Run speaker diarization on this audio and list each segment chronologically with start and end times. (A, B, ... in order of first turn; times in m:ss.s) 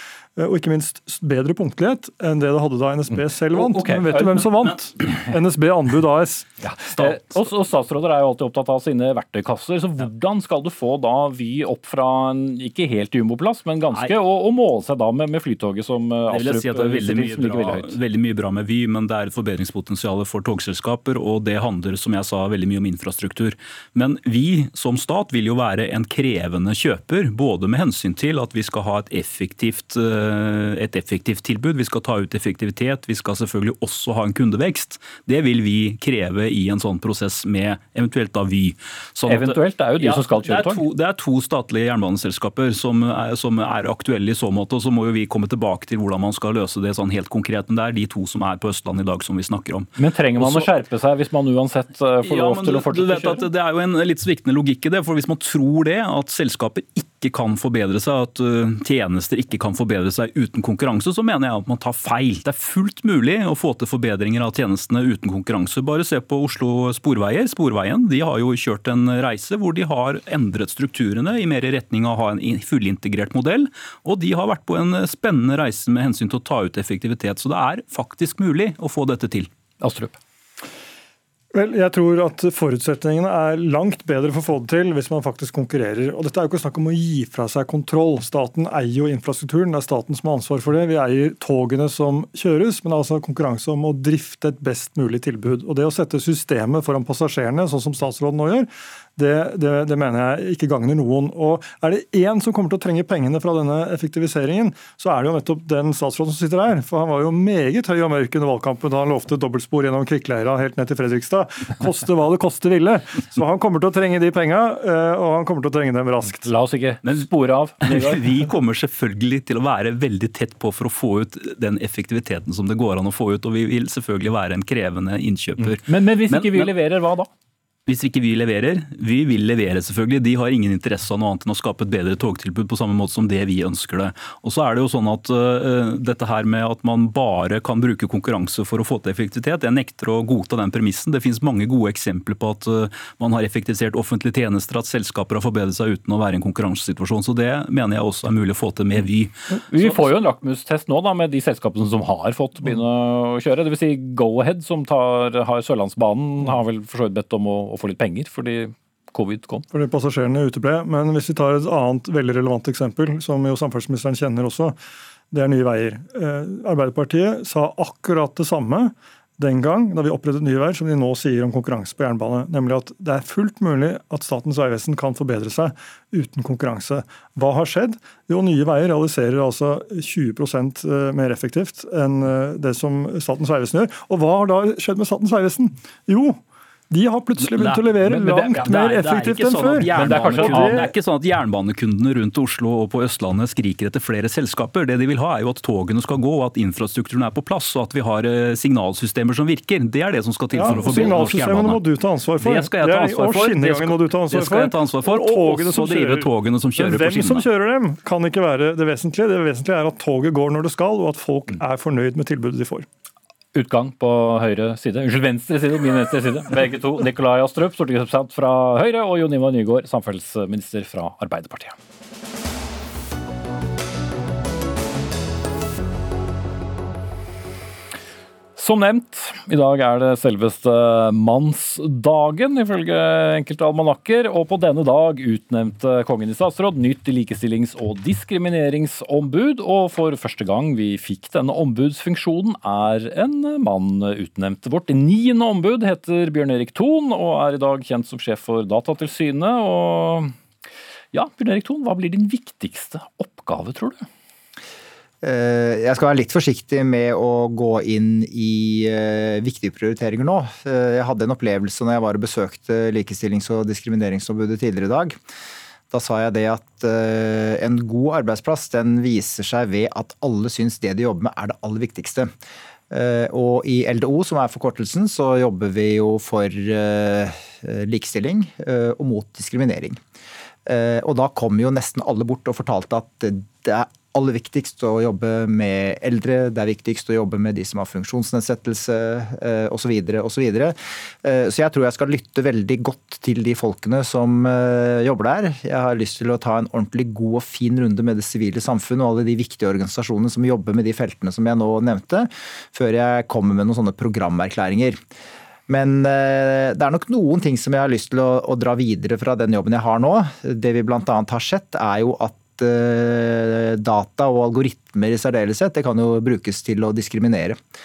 0:00.4-0:06.5 A
0:03.5-0:04.5 B
0:06.6-0:18.0 B
0:06.9-0:07.5 C
0:16.3-0:50.8 C
0:39.3-0:40.8 B
0:50.0-0:53.5 B
0:52.2-1:19.5 C
1:19.8-1:20.2 B
1:21.5-1:56.5 A
1:56.3-1:58.5 B
1:57.0-2:06.7 C
2:05.6-2:07.3 B
2:07.8-2:30.1 C
2:29.7-2:39.6 B
2:39.7-2:44.8 A
2:45.3-3:06.4 A
3:06.9-3:10.9 A
3:07.4-3:27.5 C
3:10.0-3:10.8 B
3:20.5-3:32.8 A
3:33.5-3:41.7 B
3:48.6-4:10.3 B
4:11.1-4:14.1 B
4:15.2-4:25.2 D
4:25.9-4:32.3 D
4:32.9-4:40.0 D
4:40.6-5:05.0 D
5:05.7-5:17.6 D